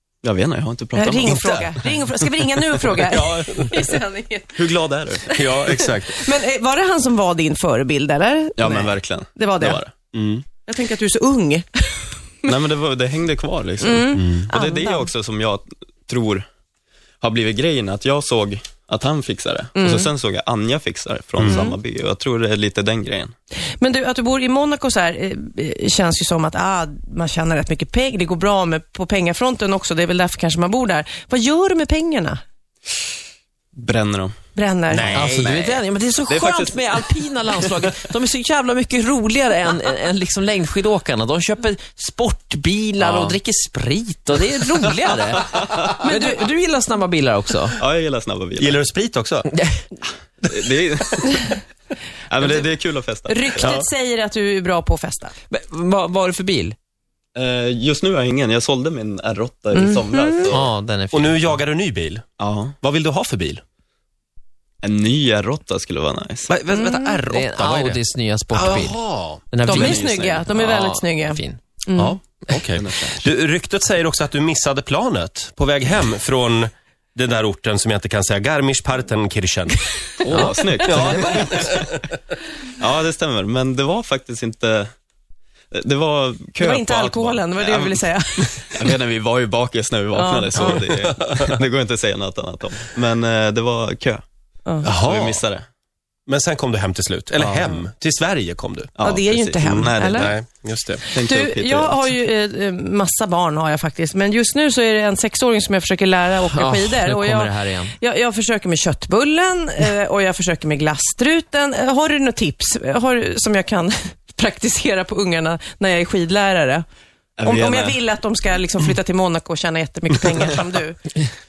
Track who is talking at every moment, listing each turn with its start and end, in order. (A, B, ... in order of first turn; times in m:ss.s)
0:00.2-0:01.9 A
0:00.9-0:04.6 B
0:01.2-0:01.7 C
0:03.1-0:03.8 C
0:04.5-0:05.2 A
0:05.2-0:09.8 B
0:05.3-0:06.3 C
0:08.6-0:09.9 A
0:10.1-0:10.4 C
0:10.7-0:12.5 B
0:12.5-0:16.4 A
0:13.8-0:15.1 B
0:14.2-0:14.5 C
0:17.2-0:23.3 A
0:19.8-0:20.1 B
0:21.4-0:21.8 B
0:23.8-0:32.4 B
0:33.8-0:34.4 A
0:34.5-0:35.1 B
0:34.9-0:35.6 C
0:35.0-0:37.0 A
0:35.1-0:47.8 D
0:43.0-0:43.4 A
0:46.0-0:46.5 B
0:47.8-0:48.8 A
0:48.6-0:49.5 C
0:50.4-0:51.6 A
0:52.3-0:53.8 A
0:52.4-0:52.7 B
0:53.2-0:55.3 B
0:53.6-0:53.9 C
0:55.5-0:56.8 D
0:57.3-1:00.7 A
0:59.7-1:00.5 B
1:00.5-1:01.6 D
1:01.1-1:02.2 C
1:02.4-1:02.8 A
1:02.8-1:03.6 C
1:04.8-1:06.5 A
1:06.5-1:08.0 C
1:06.7-1:07.2 B
1:07.3-1:09.0 D
1:08.5-1:09.4 C
1:09.5-1:11.6 D
1:09.7-1:10.5 A
1:09.7-1:12.2 B
1:11.9-1:19.8 C
1:12.7-1:13.3 A
1:20.2-1:21.9 A
1:20.8-1:21.9 C
1:22.8-1:24.9 A
1:25.7-1:34.2 A
1:26.6-1:28.8 B
1:30.1-1:30.9 B
1:34.8-1:35.4 C
1:34.9-1:35.6 A
1:36.3-1:38.9 C
1:37.4-1:37.8 A
1:38.9-1:40.4 A
1:39.0-1:40.3 B
1:39.6-1:41.0 C
1:41.1-1:56.8 B
1:41.1-1:42.0 A
1:46.4-1:47.9 D
1:57.4-1:58.0 A
1:57.4-2:01.0 B